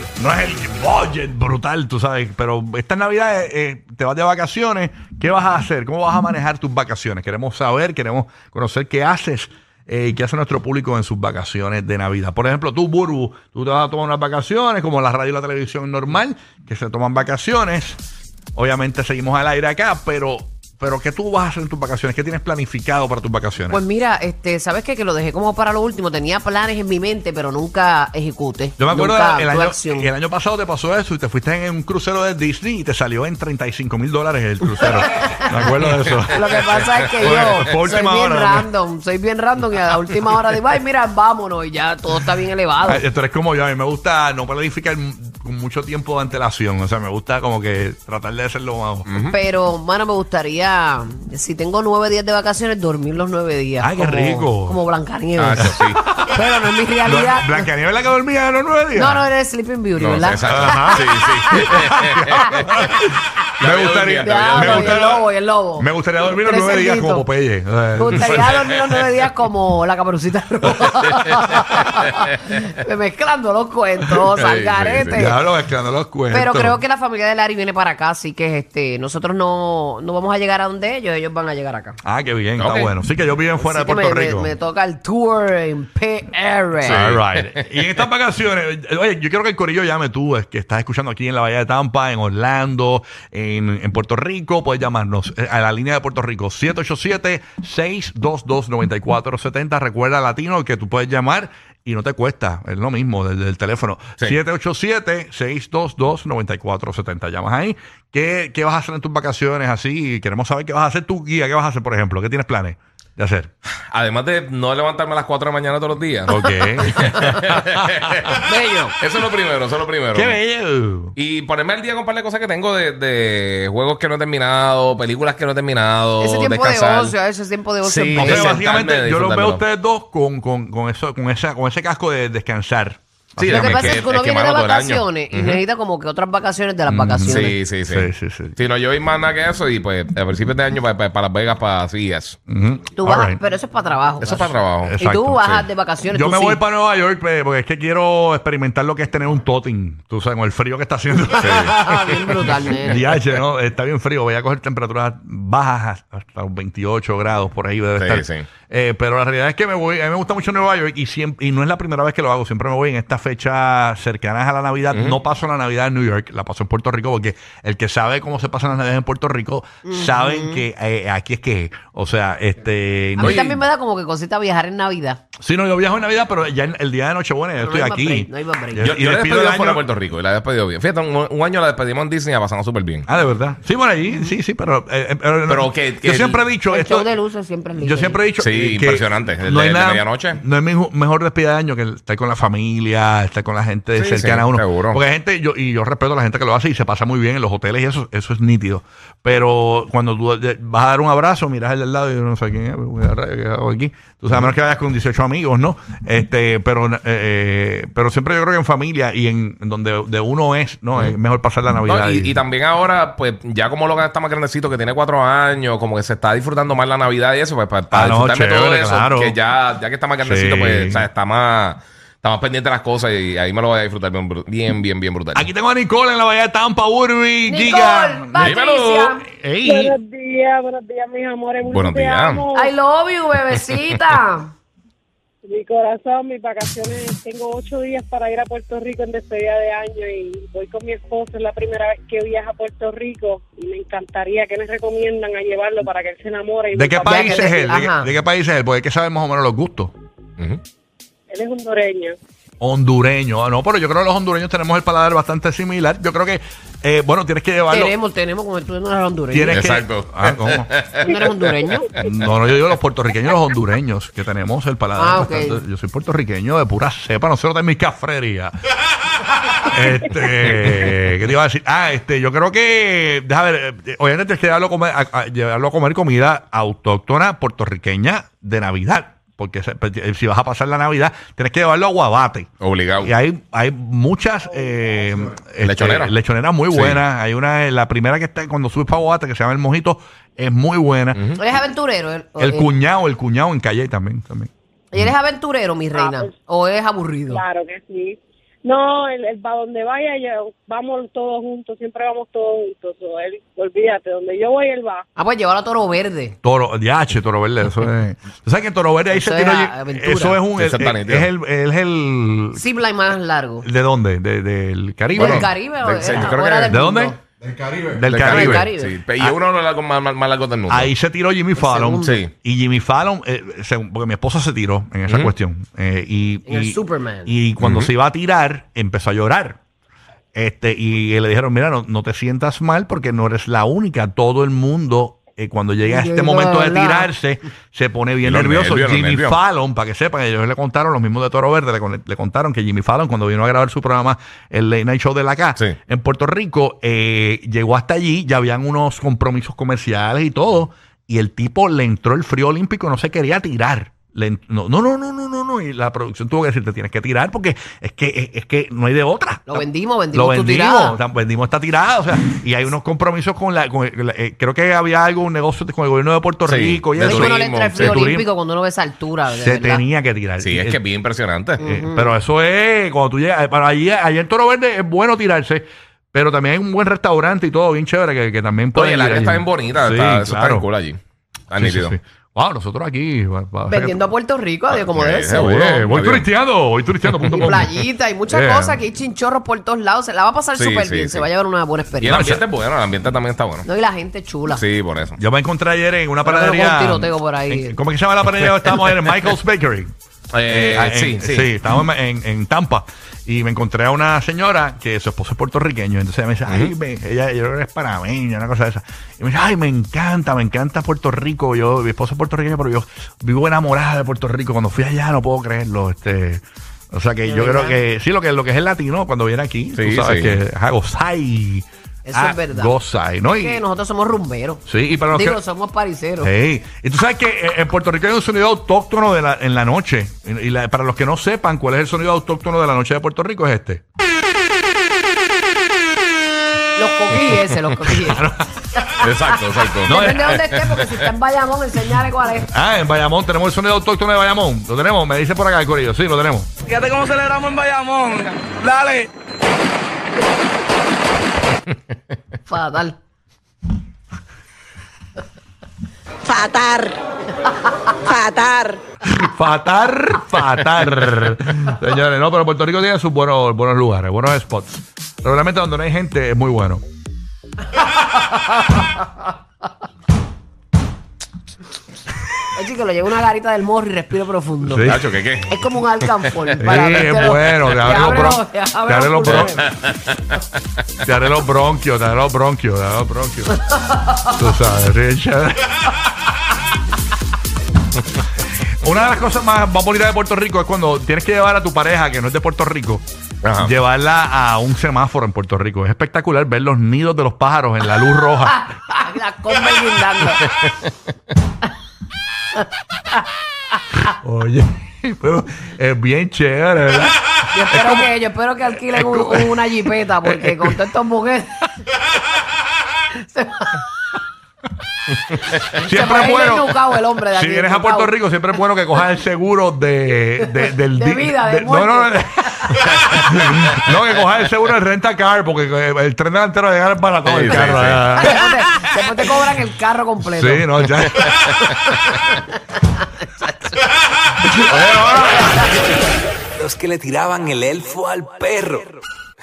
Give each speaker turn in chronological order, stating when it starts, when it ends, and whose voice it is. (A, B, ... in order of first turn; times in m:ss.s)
0:00.2-0:18.0 A
0:18.6-0:23.8 A
0:23.7-0:30.1 B
0:28.8-0:36.6 A
0:34.8-0:35.6 B
0:35.7-0:37.1 C
0:36.3-0:43.0 B
0:37.2-0:38.7 A
0:42.8-0:49.2 A
0:49.1-0:49.4 C
0:49.3-0:55.8 B
0:53.8-0:54.8 A
0:55.4-0:56.0 C
0:55.6-0:56.4 A
0:56.3-0:57.7 B
0:57.0-0:59.3 A
0:58.9-1:03.1 B
1:00.0-1:02.5 C
1:00.5-1:05.3 A
1:03.6-1:05.0 C
1:04.2-1:07.3 B
1:05.8-1:08.7 A
1:08.0-1:15.4 B
1:14.4-1:15.2 C
1:15.1-1:16.8 A
1:16.3-1:22.0 B
1:22.0-1:24.5 A
1:22.6-1:22.9 C
1:23.6-1:27.1 B
1:26.8-1:53.5 A
1:26.8-1:27.8 C
1:53.9-1:58.4 C
1:56.3-1:58.4 A
1:56.9-1:57.3 B
1:58.4-1:59.0 B
1:59.0-2:00.4 C
2:00.1-2:01.2 A
2:01.2-2:07.2 C
2:06.2-2:08.6 B
2:07.8-2:09.6 C
2:08.2-2:14.0 A
2:13.4-2:15.6 C
2:13.5-2:17.6 B
2:16.9-2:18.6 A
2:17.3-2:22.4 C
2:22.5-2:23.4 A
2:22.9-2:26.6 B
2:24.2-2:25.6 C
2:24.8-2:53.6 A
2:31.3-2:33.1 B
2:31.4-2:31.8 C
2:38.0-2:38.5 C
2:44.9-2:45.2 C
2:49.8-2:50.6 B
2:53.2-2:55.2 B
2:53.2-2:53.5 C
2:55.4-2:59.8 A
2:57.6-2:58.9 B
2:58.8-3:03.1 C
3:03.1-3:07.1 A
3:05.5-3:06.4 C
3:06.7-3:08.2 B
3:07.8-3:32.4 A
3:08.4-3:10.4 C
3:14.0-3:15.0 C
3:31.9-3:45.5 C
3:37.9-3:39.4 A
3:40.2-3:41.1 A
3:45.3-3:48.6 A
3:47.5-3:49.3 B
3:48.4-3:49.2 C
3:49.3-3:50.0 A
3:49.6-3:52.7 D
3:51.7-3:52.5 C
3:52.5-3:54.5 B
3:55.4-4:07.3 D
4:06.7-4:09.9 A
4:07.0-4:08.1 B
4:11.3-4:12.2 D
4:12.6-4:17.9 A
4:17.7-4:19.7 B
4:19.3-4:20.7 A
4:19.5-4:21.1 C
4:21.0-4:21.9 B
4:21.9-4:28.6 A
4:25.0-4:25.6 B
4:29.6-4:51.2 A
4:30.4-4:30.8 D
4:42.6-4:43.1 C
4:45.6-4:46.1 C
4:46.7-4:47.0 C
4:51.4-4:52.8 B
4:52.4-4:54.5 A
4:54.9-4:57.4 B
4:56.0-4:56.3 D
4:57.3-5:05.0 D
5:05.2-5:06.4 B
5:06.4-5:12.6 A
5:09.1-5:10.4 B
5:10.6-5:11.3 C
5:12.5-5:13.7 B
5:13.6-5:15.5 A
5:15.1-5:17.2 B
5:15.2-5:16.8 C
5:16.1-5:17.2 A
5:17.8-5:19.4 A
5:18.0-5:20.9 C
5:18.1-5:19.0 B
5:20.7-5:29.6 A
5:21.6-5:22.2 B
5:22.0-5:22.3 C
5:25.1-5:25.3 C
5:26.5-5:27.4 B
5:27.6-5:27.9 C
5:30.4-6:08.3 A
5:35.9-5:37.1 B
5:38.2-5:39.4 C
5:59.5-6:01.0 B
6:06.4-6:08.0 C
6:07.0-6:09.8 B
6:09.3-6:10.8 A
6:10.4-6:11.6 C
6:11.6-6:12.2 B
6:11.6-6:20.7 A
6:18.7-6:21.0 C
6:21.5-6:22.0 C
6:21.6-6:24.1 A
6:23.7-6:25.6 B
6:24.7-6:26.3 C
6:25.3-6:28.8 A
6:27.3-6:32.3 B
6:30.6-6:31.3 C
6:32.0-6:33.7 C
6:32.0-6:32.4 A
6:33.6-6:34.6 B
6:34.5-6:35.2 C
6:35.2-6:39.9 A
6:36.2-6:37.8 B
6:40.3-6:41.5 C
6:40.5-7:03.6 A
6:46.5-6:46.7 C
6:57.2-6:57.8 B
6:59.8-7:00.4 C
7:02.0-7:02.7 B
7:03.2-7:06.3 B
7:04.7-7:05.4 A
7:06.2-7:13.8 A
7:16.8-7:19.1 B
7:17.1-7:18.8 A
7:19.0-7:20.7 C
7:19.8-7:22.5 B
7:19.8-7:20.5 A
7:22.4-7:26.5 A
7:26.7-7:29.1 E
7:32.5-7:33.0 B
7:36.3-7:37.0 B
7:37.5-7:38.8 B
7:39.1-7:46.8 A
7:47.8-7:49.0 B
7:52.5-7:59.7 B
7:54.6-7:55.0 A
7:54.8-7:56.6 C
7:56.6-7:59.6 A
7:59.2-8:00.4 C
8:01.0-8:03.6 A
8:03.9-8:04.3 B
8:04.3-8:05.9 A
8:08.8-8:13.0 A
8:13.4-8:13.7 C
8:13.6-8:18.7 A
8:18.4-8:20.4 B
8:20.4-8:20.9 C
8:24.1-8:28.1 A
8:27.5-8:31.6 B
8:28.8-8:30.9 A
8:33.1-8:33.9 B
8:35.6-8:48.5 A
8:35.7-8:38.2 B
8:40.4-8:43.3 B
8:47.2-8:48.1 C
8:48.1-8:53.8 B
8:50.2-8:51.5 A
8:54.4-8:55.7 A
8:55.3-8:55.8 B
8:56.6-8:59.0 E